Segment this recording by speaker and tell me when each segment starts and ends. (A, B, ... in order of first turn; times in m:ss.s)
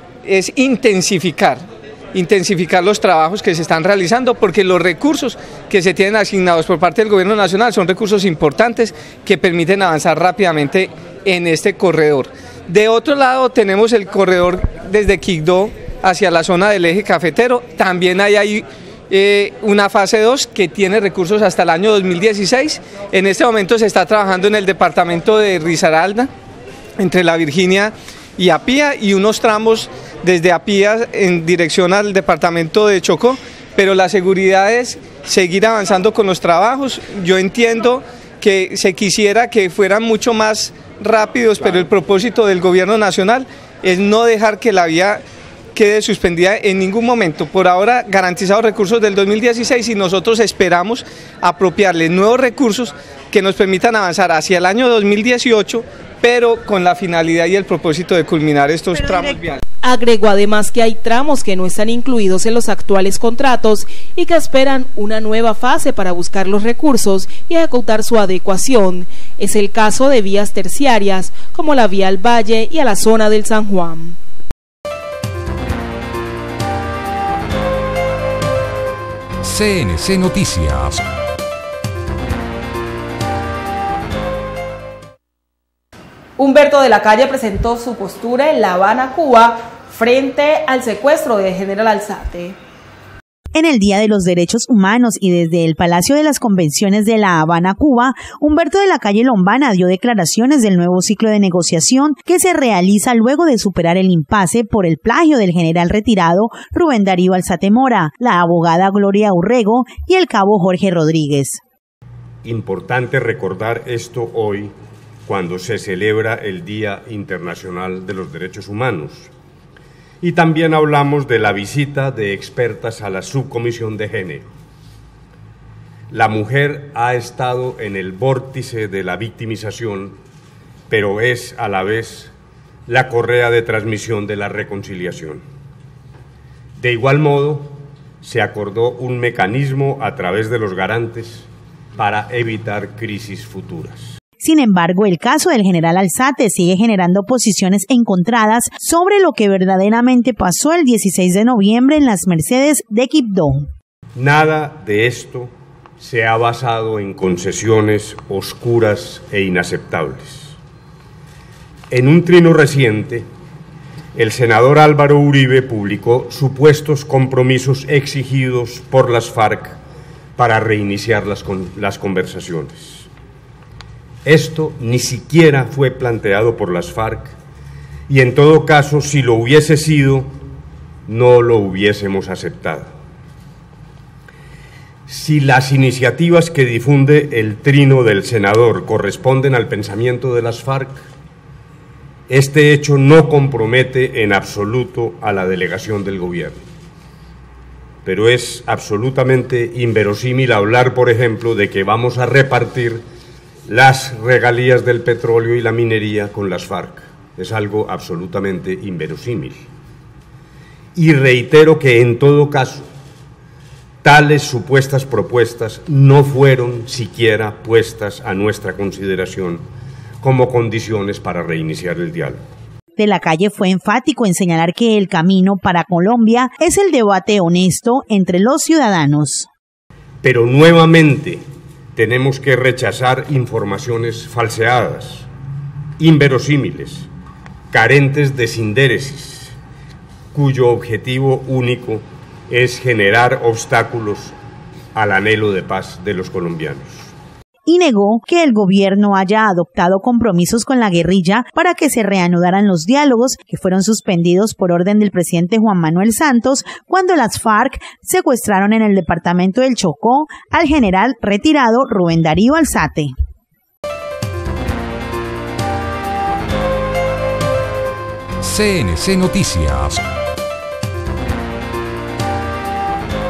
0:00.2-0:26.3 A
0:27.0-0:45.2 A
0:45.8-0:59.6 A
0:59.8-1:14.2 B
1:19.4-1:21.0 C
1:26.4-1:32.6 B
1:33.5-1:51.6 D
1:52.4-1:54.7 E
1:55.3-1:59.3 E
2:00.2-2:04.5 E
2:06.1-2:10.2 E
2:10.9-2:12.3 E
2:12.9-2:15.4 E
2:16.8-2:24.2 E
2:24.4-2:33.7 D
2:34.2-2:40.6 E
2:41.9-2:43.3 E
2:44.2-2:49.8 E
2:50.4-2:53.1 E
2:54.2-2:57.4 E
2:58.1-3:00.4 E
3:01.1-3:02.9 E
3:05.1-3:11.0 E
3:12.3-3:16.7 E
3:18.0-3:23.0 E
3:23.7-3:29.6 E
3:31.0-3:32.9 E
3:34.0-3:39.7 E
3:40.2-3:42.4 E
3:43.0-3:49.5 D
3:50.2-3:51.4 E
3:52.0-3:55.3 E
3:56.0-3:57.1 E
3:57.7-3:59.5 E
4:00.3-4:04.4 E
4:05.0-4:07.1 E
4:07.7-4:23.1 D
4:28.4-4:30.0 C